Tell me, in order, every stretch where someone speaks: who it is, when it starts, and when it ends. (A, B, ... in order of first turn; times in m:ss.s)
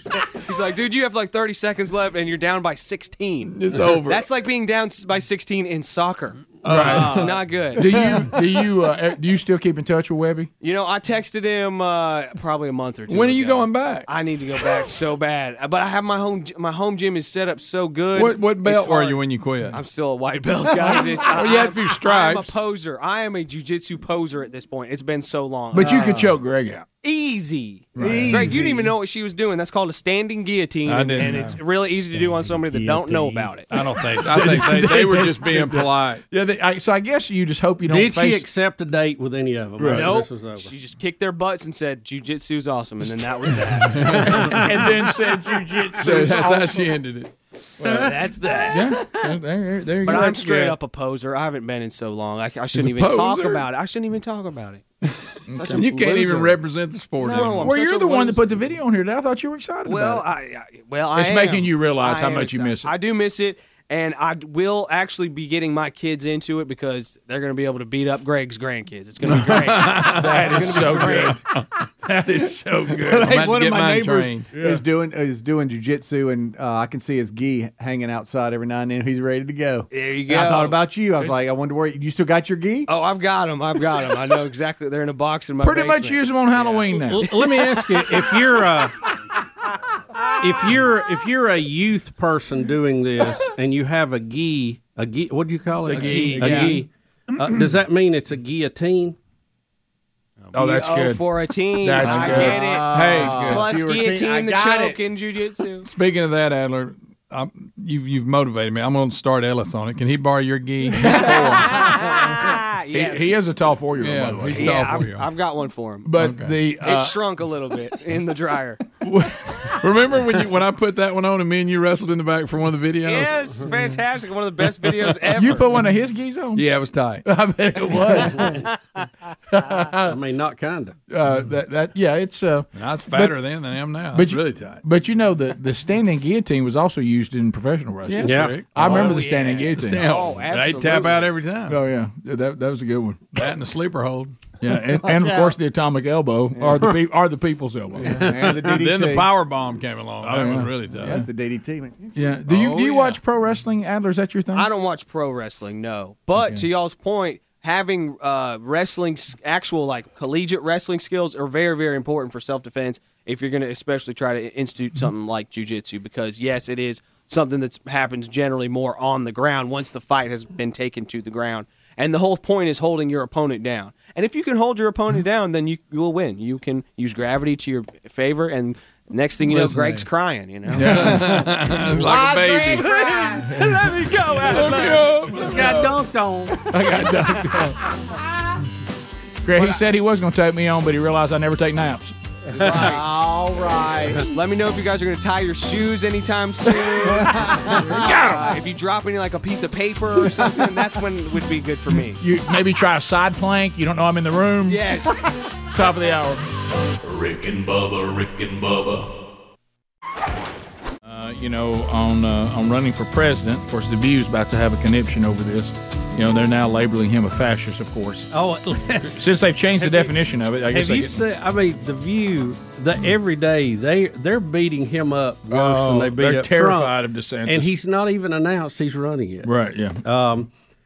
0:00.4-0:08.0 A
0:03.5-0:04.2 B
0:06.6-0:08.2 B
0:06.6-0:10.5 C
0:10.6-0:26.4 A
0:13.1-0:14.1 B
0:18.1-0:19.8 B
0:20.9-0:22.6 B
0:25.7-0:26.8 C
0:27.0-0:33.7 A
0:27.9-0:28.5 C
0:28.0-0:28.9 D
0:28.0-0:28.6 B
0:30.8-0:31.6 B
0:33.7-0:36.2 B
0:34.2-0:38.4 C
0:37.9-0:40.7 E
0:39.8-0:40.0 C
0:39.9-0:44.8 A
0:43.6-0:44.9 B
0:44.1-0:46.6 C
0:45.7-0:46.8 A
0:45.9-0:47.3 B
0:47.8-0:49.2 A
0:48.7-0:50.8 C
0:50.0-0:54.8 A
0:52.7-0:53.6 B
0:55.1-0:57.8 B
0:55.5-0:55.9 C
0:55.5-0:56.6 A
0:57.2-0:58.6 A
0:57.6-1:00.2 C
0:59.8-1:11.4 A
1:01.1-1:02.9 C
1:09.2-1:11.6 B
1:09.9-1:11.4 C
1:12.0-1:13.3 C
1:12.9-1:14.6 B
1:13.0-1:22.9 D
1:19.9-1:20.8 A
1:22.9-1:27.0 A
1:25.6-1:27.3 C
1:26.9-1:28.9 E
1:30.4-1:39.2 E
1:35.9-1:36.8 C
1:36.0-1:36.7 B
1:36.0-1:36.8 A
1:40.5-1:45.9 A
1:40.5-1:41.2 C
1:41.8-1:43.6 C
1:42.0-1:45.0 D
1:42.9-1:43.6 B
1:45.8-1:51.9 B
1:51.0-1:51.8 C
1:51.1-1:53.4 A
1:52.9-1:54.7 C
1:54.0-1:55.3 B
1:54.5-1:56.2 A
1:56.0-1:57.2 C
1:56.2-1:56.6 B
1:56.8-1:58.8 A
1:59.0-2:03.7 B
2:03.0-2:05.8 A
2:04.8-2:05.2 B
2:05.3-2:06.7 C
2:06.6-2:07.2 B
2:07.2-2:08.7 C
2:09.5-2:10.2 C
2:10.0-2:11.0 E
2:11.1-2:13.4 C
2:12.7-2:14.8 B
2:14.1-2:20.1 C
2:18.1-2:19.2 B
2:18.2-2:18.6 E
2:18.7-2:21.4 A
2:19.7-2:21.8 B
2:21.7-2:23.4 C
2:23.3-2:24.4 B
2:24.6-2:28.3 C
2:26.6-2:26.9 D
2:28.0-2:29.3 D
2:28.6-2:31.2 B
2:30.2-2:31.3 C
2:31.0-2:32.2 D
2:32.1-2:34.7 C
2:32.5-2:33.2 B
2:34.5-3:05.5 A
2:59.4-3:00.0 B
3:00.7-3:02.9 B
3:00.8-3:01.4 C
3:02.1-3:02.8 D
3:04.4-3:05.9 B
3:05.3-3:06.6 E
3:06.6-3:07.8 C
3:09.4-3:12.1 C
3:12.5-3:14.2 D
3:12.6-3:13.1 A
3:14.2-3:22.2 A
3:17.3-3:18.0 D
3:17.8-3:18.6 C
3:22.2-3:25.0 C
3:24.6-3:25.3 A
3:25.7-3:26.5 C
3:27.0-3:29.1 F
3:31.0-3:38.3 C
3:38.3-3:39.2 E
3:39.0-3:41.2 C
3:39.8-3:40.2 E
3:40.7-3:46.9 E
3:45.5-3:47.7 C
3:47.4-3:49.5 E
3:49.4-3:50.0 C
3:50.0-3:50.5 E